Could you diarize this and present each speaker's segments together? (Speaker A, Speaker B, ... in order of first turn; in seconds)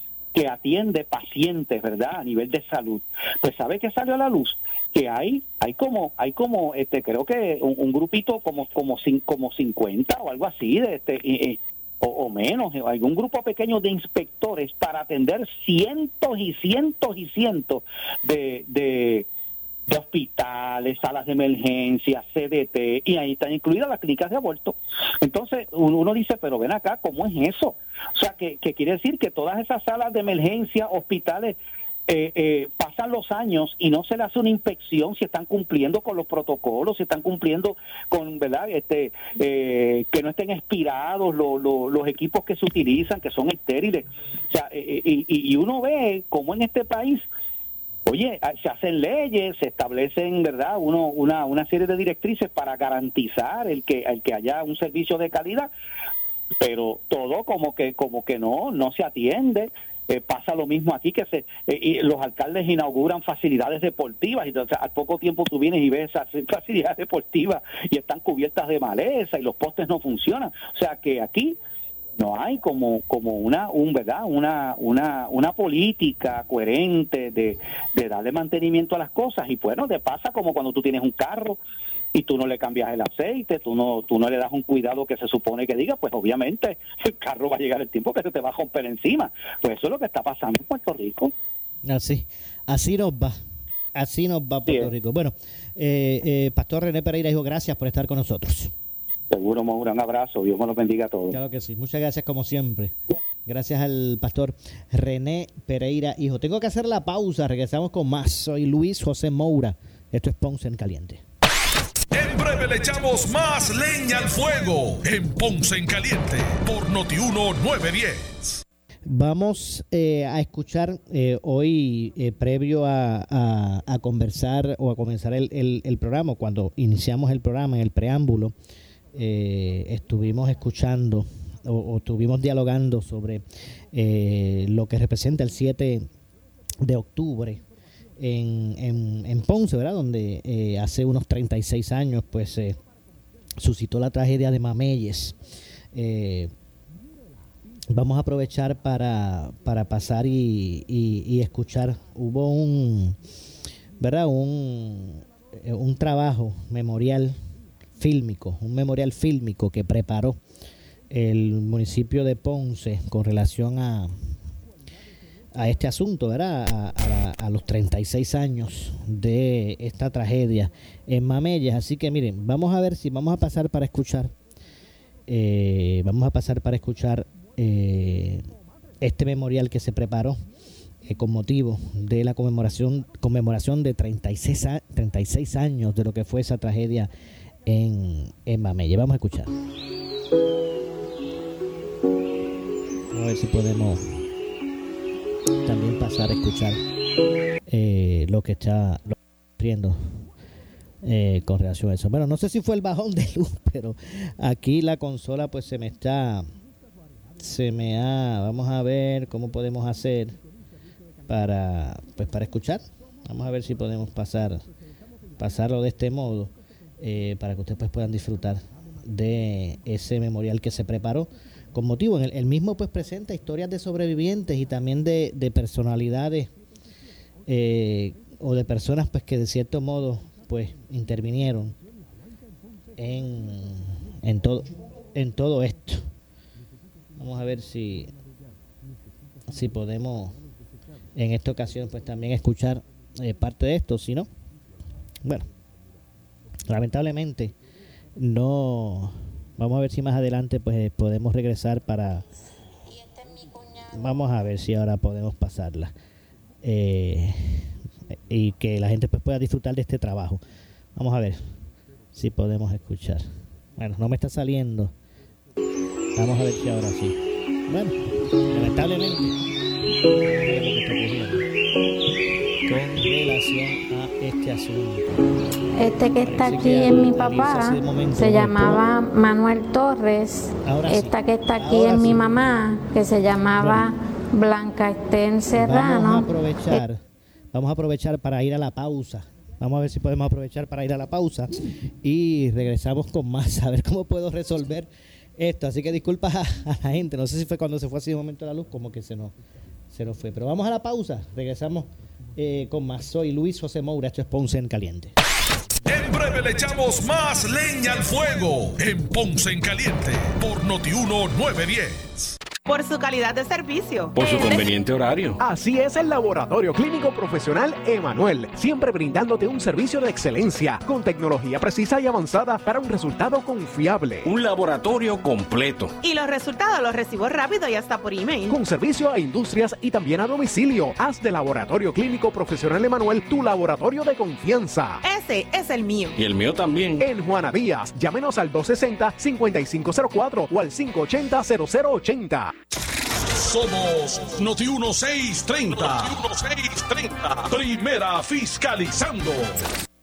Speaker A: 0.3-19.3, 19.9-31.6, 32.1-47.2, 48.1-55.7, 56.6-71.6, 72.2-81.6, 82.1-91.3, 99.3-101.4
Speaker B: 91.8-93.4, 94.0-98.7, 101.3-111.2, 119.0-128.5, 129.1-136.1, 136.8-137.6, 138.2-142.8, 143.6-145.4, 145.9-146.5, 147.9-153.2, 154.0-157.4, 158.0-160.4, 161.1-164.2, 165.6-174.3, 175.3-178.5, 179.0-180.4, 181.0-187.1, 187.7-189.5, 193.1-194.2, 195.7-196.8, 197.7-200.2, 201.0-206.5, 207.4-210.4, 211.3-214.6, 215.4-226.5, 227.5-231.8, 233.0-236.1, 237.2-238.1, 239.5-240.4, 241.2-244.3, 246.7-247.6, 248.2-252.3, 253.8-255.9, 256.6-260.4, 261.0-261.5, 262.1-264.9, 266.2-267.2, 267.7-268.0, 268.5-269.4, 270.2-271.5, 272.7-275.2, 276.2-278.8, 280.6-282.4, 283.6-283.9, 285.5-287.0, 287.5-299.4, 299.9-305.1
Speaker C: 112.1-118.6, 305.9-312.3, 343.4-349.4
Speaker D: 275.8-286.3
Speaker E: 312.7-314.7, 326.0-328.5, 335.0-336.1
Speaker F: 314.1-315.4, 324.2-325.9, 336.2-337.1
Speaker G: 315.4-324.3, 328.5-335.0, 337.0-342.5